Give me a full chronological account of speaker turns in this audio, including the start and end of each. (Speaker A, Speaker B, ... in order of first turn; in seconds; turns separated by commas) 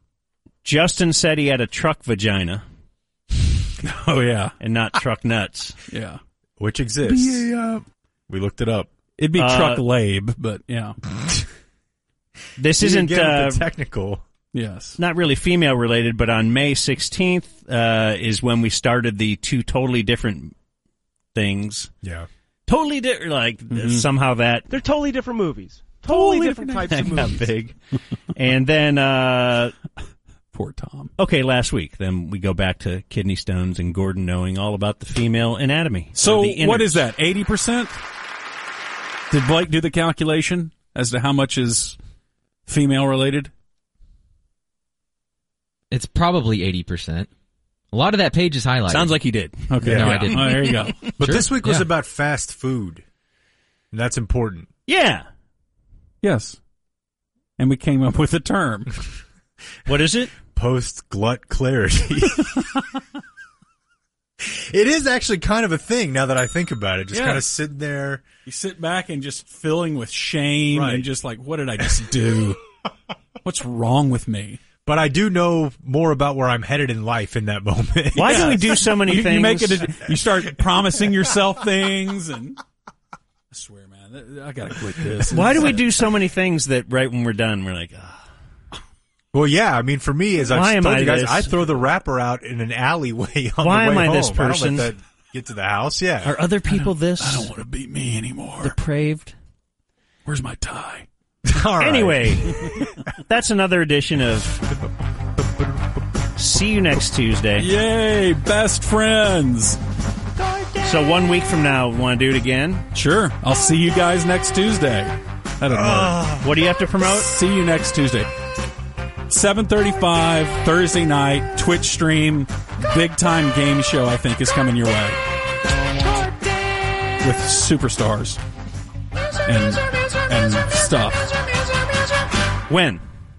Speaker A: 0.6-2.6, Speaker B: 3.8-4.5, Speaker A: 4.6-5.8, Speaker B: 5.9-6.2, Speaker C: 6.6-8.9, Speaker B: 7.0-7.5, Speaker B: 9.2-11.0, Speaker A: 9.4-9.8, Speaker A: 12.6-13.7, Speaker C: 12.8-14.2, Speaker B: 14.5-15.0, Speaker A: 15.0-20.5, Speaker A: 21.3-21.9, Speaker A: 22.7-24.7, Speaker B: 23.7-24.1, Speaker D: 24.7-27.4, Speaker B: 26.0-27.4, Speaker A: 26.8-27.8, Speaker A: 28.4-29.7, Speaker B: 30.5-31.1, Speaker A: 31.2-37.0, Speaker B: 36.1-37.9, Speaker B: 39.3-42.0, Speaker B: 42.7-43.5, Speaker E: 45.9-47.3, Speaker E: 47.9-49.1, Speaker A: 48.9-51.0, Speaker B: 49.7-51.1, Speaker C: 49.8-50.3, Speaker E: 49.8-50.5, Speaker E: 51.1-51.9, Speaker C: 51.2-53.0, Speaker C: 53.9-54.7, Speaker A: 54.9-55.2, Speaker B: 56.2-56.6, Speaker B: 57.6-59.0, Speaker A: 59.9-60.3, Speaker C: 60.5-62.8, Speaker C: 64.4-68.2, Speaker B: 67.1-67.5, Speaker B: 68.5-72.6, Speaker C: 70.7-71.1, Speaker B: 73.5-74.6, Speaker C: 74.9-78.8, Speaker A: 78.2-79.9, Speaker B: 78.2-82.6, Speaker B: 83.5-85.8, Speaker C: 85.2-85.8, Speaker A: 85.3-88.2, Speaker C: 89.3-96.3, Speaker A: 90.5-91.5, Speaker A: 93.6-94.9, Speaker A: 96.2-97.5, Speaker B: 96.7-98.8, Speaker A: 98.6-99.3, Speaker B: 100.3-101.0, Speaker C: 101.4-102.7, Speaker A: 101.8-102.6, Speaker A: 103.2-104.6, Speaker A: 106.4-107.7, Speaker B: 107.6-109.8, Speaker A: 110.8-112.9, Speaker B: 112.9-116.3, Speaker C: 115.7-116.5, Speaker A: 116.4-117.3, Speaker B: 117.0-118.3, Speaker B: 119.3-125.2, Speaker B: 127.2-128.4, Speaker B: 129.5-131.3, Speaker A: 132.7-133.0